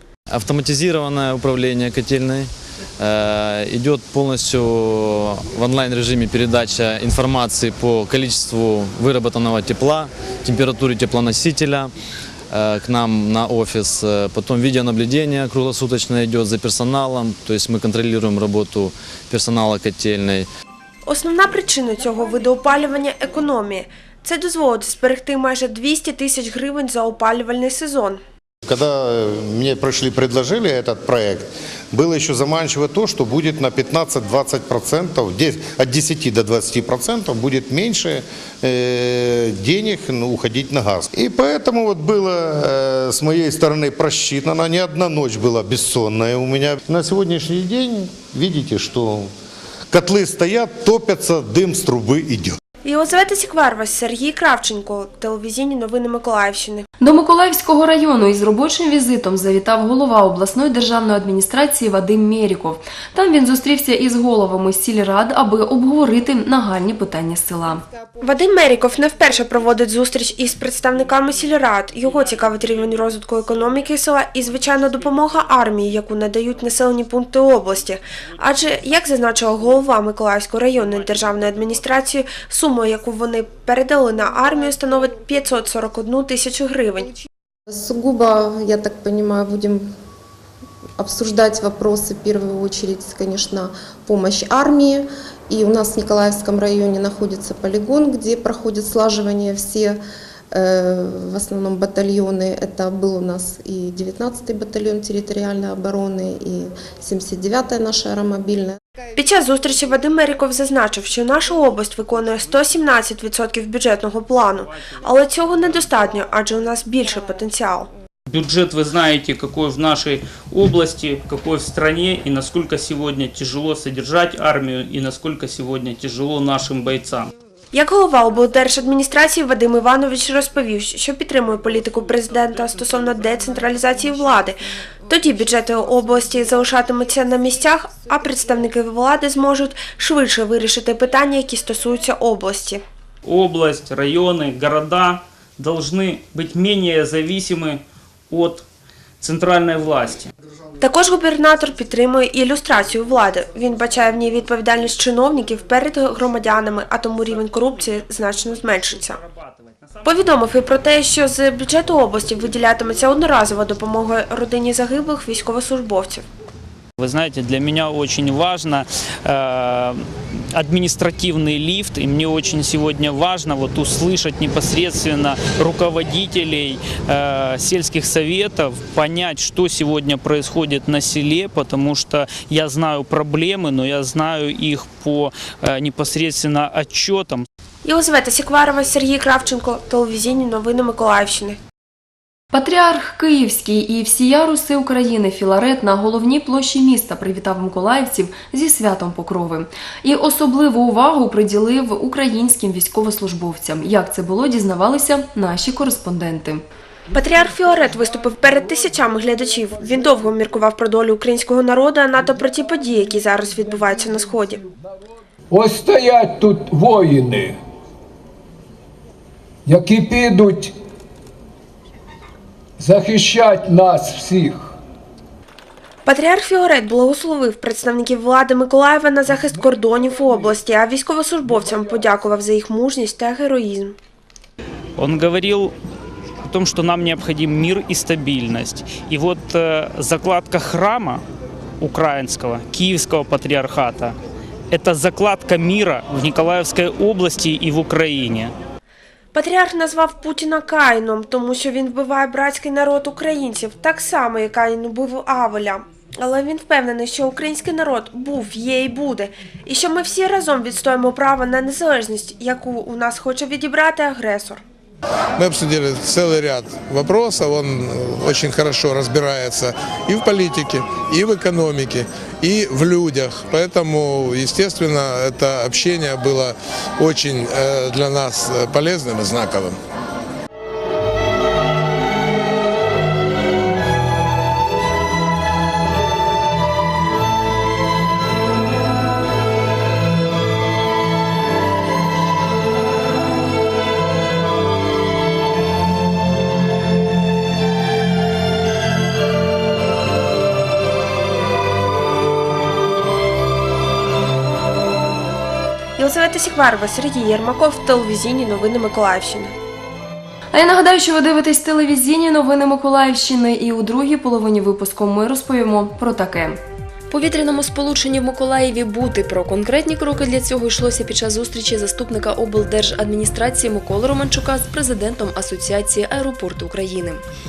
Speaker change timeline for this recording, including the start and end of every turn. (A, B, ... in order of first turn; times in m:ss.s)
0:00.3-0:11.9 A
0:12.5-0:20.5 A
0:21.1-0:28.2 B
0:28.7-0:49.3 C
0:49.9-0:52.6 C
0:52.8-0:56.9 B
0:57.0-1:07.8 D
1:08.2-1:27.1 B
1:27.7-1:29.9 E
1:31.0-1:40.0 E
1:40.5-1:48.8 E
1:49.2-1:57.9 B
1:58.3-2:07.3 F
2:07.7-2:22.8 B
2:23.3-2:28.6 F
2:29.2-2:30.3 F
2:30.8-2:39.2 B
2:39.4-2:39.8 F
2:40.0-2:46.2 B
2:47.0-3:07.5 F
3:07.8-3:11.6 B
3:12.5-3:26.6 D
3:27.1-3:34.6 B
3:35.5-3:37.6 G
3:39.7-3:40.8 G
3:42.8-3:44.8 G
3:46.1-3:54.0 B
3:55.0-3:55.7 F
3:56.4-4:01.2 F
4:01.8-4:04.2 F
4:04.7-4:08.5 F
4:09.3-4:24.6 B
4:25.4-4:39.8 H
5:06.0-5:09.5 B
5:10.5-5:16.6 D
5:17.1-5:27.2 D